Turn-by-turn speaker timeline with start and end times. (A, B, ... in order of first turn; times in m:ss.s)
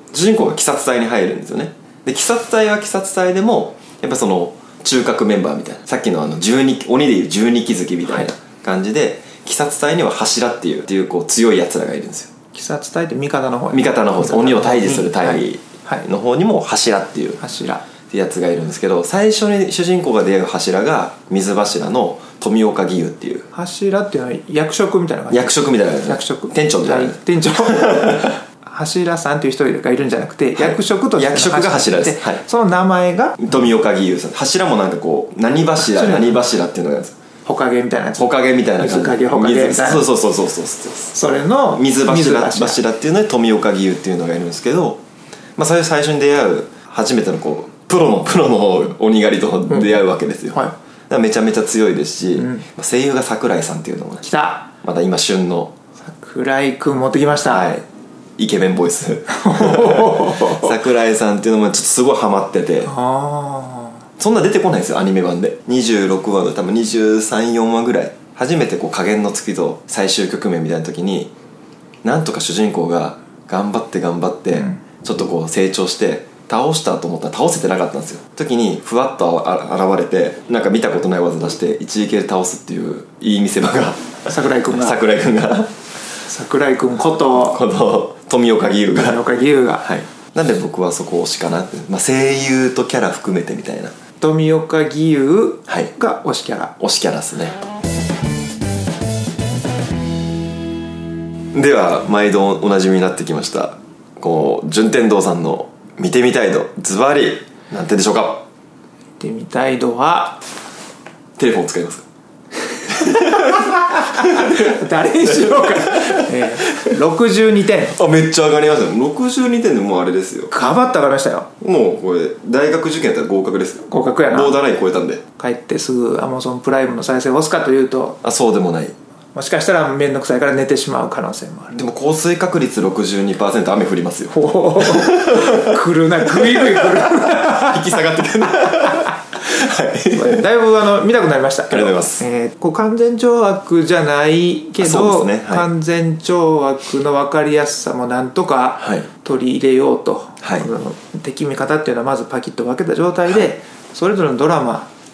0:00.1-0:12.3 A
0:12.5-0:16.1 B
0:13.7-0:17.4 A
0:17.4-0:17.8 B
0:18.1-0:23.5 A
0:23.5-0:33.6 B
0:25.3-0:28.3 A
0:30.6-0:32.4 A
0:33.4-0:37.2 A
0:35.8-0:36.5 B
0:37.4-0:40.1 B
0:38.2-0:41.2 A
0:41.1-0:42.8 B
0:41.7-0:45.0 A
0:45.6-0:55.7 A
0:54.2-0:54.7 B
0:56.0-0:57.7 B
0:57.5-0:57.8 A
0:58.4-1:02.9 A
0:59.3-1:00.7 B
1:02.9-1:04.0 B
1:04.2-1:11.3 A
1:12.0-1:25.7 A
1:24.2-1:25.0 B
1:26.2-1:27.6 B
1:27.4-1:29.2 A
1:28.9-1:29.9 B
1:29.8-1:33.9 A
1:34.2-1:36.8 B
1:36.8-1:37.6 A
1:41.5-1:48.4 A
1:49.2-1:50.4 B
1:51.4-1:52.0 A
1:52.9-1:56.9 A
1:52.9-1:58.0 B
1:57.9-2:00.5 A
2:00.5-2:01.5 B
2:01.6-2:05.2 A
2:03.9-2:04.6 B
2:05.4-2:08.2 B
2:08.2-2:09.0 A
2:09.3-2:11.8 B
2:11.7-2:20.4 A
2:14.3-2:18.0 B
2:18.6-2:19.1 B
2:20.1-2:34.9 B
2:21.7-2:22.2 A
2:24.8-2:25.7 A
2:28.8-2:29.1 A
2:30.4-2:30.7 A